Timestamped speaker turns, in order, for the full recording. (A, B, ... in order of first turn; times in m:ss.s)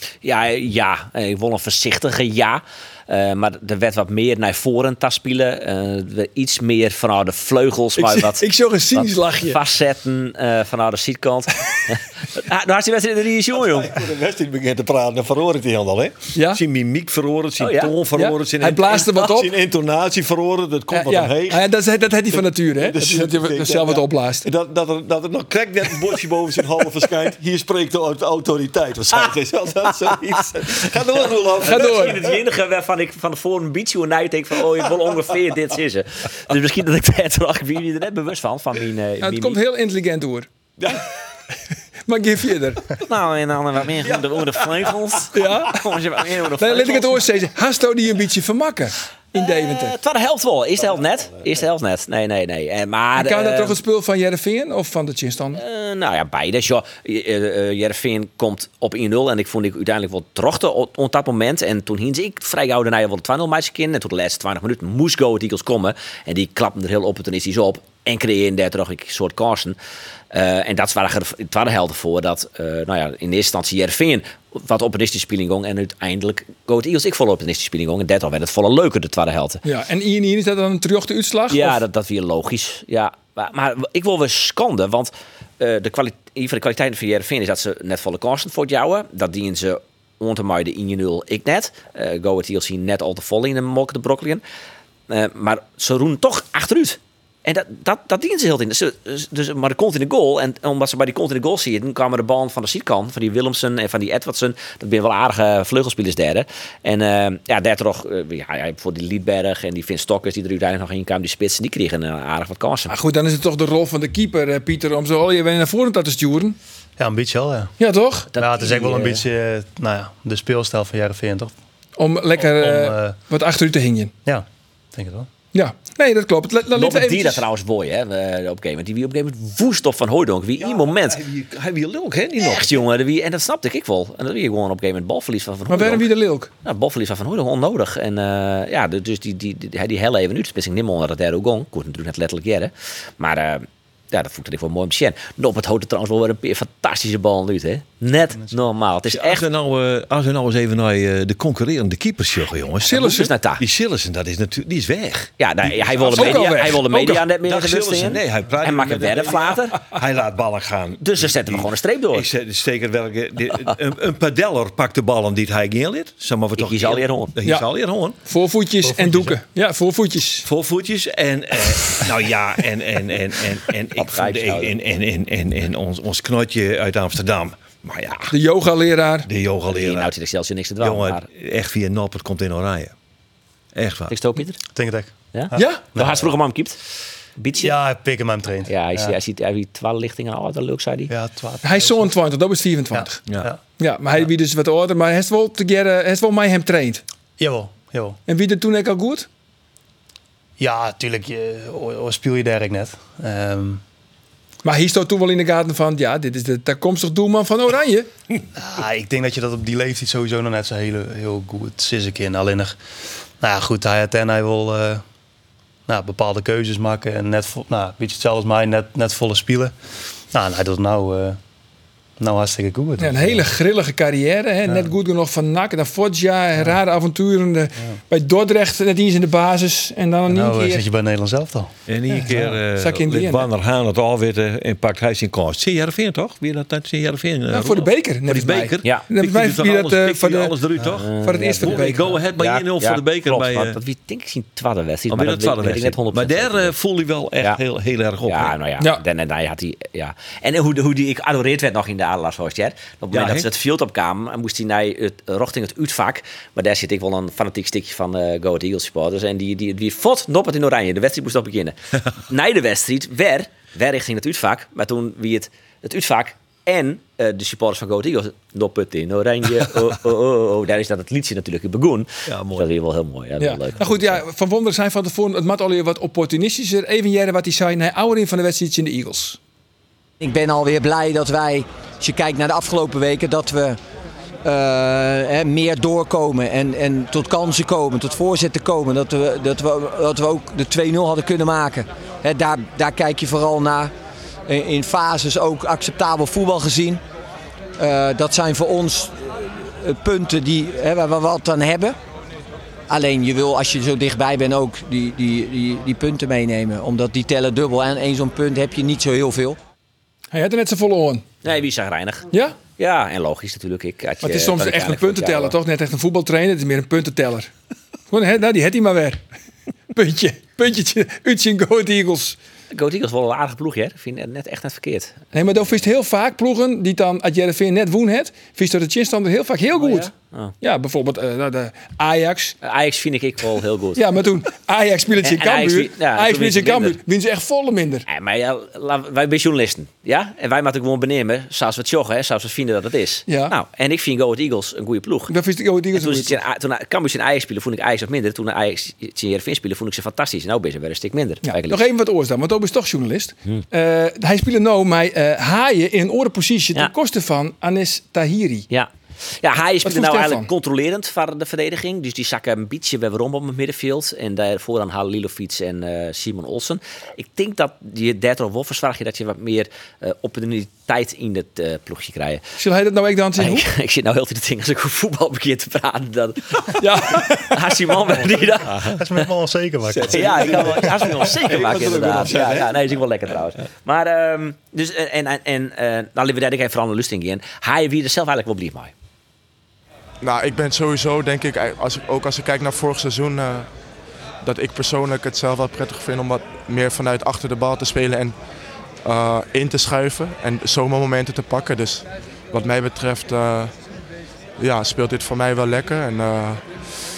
0:00.2-0:14.0 A
0:08.0-0:09.6 B
0:13.5-0:21.7 C
0:16.3-0:16.6 B
0:17.6-0:17.9 A
0:18.2-0:19.5 B
0:20.9-0:24.5 B
0:22.3-0:32.4 C
0:30.1-0:30.8 A
0:31.6-0:39.6 A
0:31.6-0:32.2 B
0:34.7-0:35.2 C
0:39.2-0:40.5 B
0:40.8-0:41.0 C
0:42.1-0:42.9 B
0:43.0-0:47.2 A
0:44.0-0:45.2 C
0:45.3-0:45.8 B
0:46.6-0:49.9 B
0:49.4-0:53.8 A
0:53.2-0:55.6 B
0:55.6-1:09.8 A
1:10.3-1:19.6 A
1:19.6-1:21.8 B
1:21.5-1:34.4 A
1:35.1-1:52.9 A
1:52.9-1:56.6 B
1:57.0-1:57.7 D
1:57.8-1:58.3 B
1:58.3-1:59.2 A
1:58.4-2:01.5 D
2:02.0-2:04.1 B
2:02.4-2:03.2 D
2:04.2-2:05.3 D
2:05.5-2:07.4 B
2:06.7-2:11.2 A
2:10.6-2:12.8 C
2:12.4-2:16.1 A
2:15.7-2:16.5 B
2:16.6-2:29.4 A
2:29.1-2:36.8 C
2:32.8-2:33.3 B
2:33.0-2:33.6 A
2:35.4-2:39.8 A
2:36.0-2:37.2 B
2:37.4-2:48.2 C
2:41.0-2:42.3 A
2:46.6-2:47.3 A
2:48.2-2:50.5 B
2:48.8-2:49.4 D
2:50.4-2:58.3 C
2:54.0-2:54.7 A
2:58.3-2:59.3 B
2:59.2-3:00.1 C
2:59.7-3:01.2 A
3:00.8-3:02.9 C
3:03.7-3:04.2 C
3:04.1-3:04.6 A
3:04.7-3:06.2 D
3:05.3-3:06.8 A
3:05.6-3:05.8 B
3:07.4-3:07.7 A
3:07.6-3:09.2 D
3:08.7-3:11.1 A
3:11.1-3:12.1 D
3:11.6-3:13.2 B
3:12.9-3:13.6 D
3:13.8-3:17.0 B
3:17.4-3:18.2 D
3:18.3-3:19.3 B
3:20.6-3:23.8 D
3:24.6-3:28.1 B
3:28.6-3:32.8 D
3:33.4-3:35.0 D
3:35.9-3:39.7 D
3:40.3-3:41.4 D
3:42.2-3:43.4 D
3:43.0-3:50.8 B
3:50.3-3:51.7 D
3:51.9-4:03.8 C
3:52.2-3:53.5 B
3:57.5-4:00.5 B
4:00.8-4:01.8 A
4:01.2-4:02.2 B
4:02.4-4:06.7 A
4:05.1-4:08.5 C
4:08.3-4:34.2 A
4:13.1-4:13.5 C
4:32.3-4:32.7 C
4:33.4-4:39.4 B
4:40.2-4:43.8 E
4:44.4-4:53.9 E
4:54.4-4:57.0 E
4:57.8-5:02.0 E
5:02.9-5:09.6 E
5:10.3-5:11.2 B
5:11.4-5:15.6 A
5:12.3-5:12.6 B
5:14.2-5:17.5 B
5:18.1-5:19.2 B
5:19.9-5:22.4 B
5:22.7-5:25.2 A
5:25.3-5:32.6 B
5:29.8-5:30.5 A
5:32.6-5:34.0 A
5:34.0-5:38.0 B
5:35.2-5:37.0 A
5:38.1-5:45.3 A
5:43.3-5:43.5 B
5:45.3-5:46.4 B
5:45.9-5:51.8 A
5:51.4-5:58.7 B
5:58.7-6:12.4 A
5:59.8-6:00.5 B
6:12.6-6:13.6 B
6:13.4-6:19.0 A
6:16.8-6:17.9 B
6:18.6-6:19.0 C
6:18.8-6:21.1 D
6:20.0-6:28.9 A
6:20.0-6:23.0 C
6:30.2-6:33.7 F
6:34.4-6:38.4 F
6:39.0-6:43.7 F
6:44.6-6:46.6 F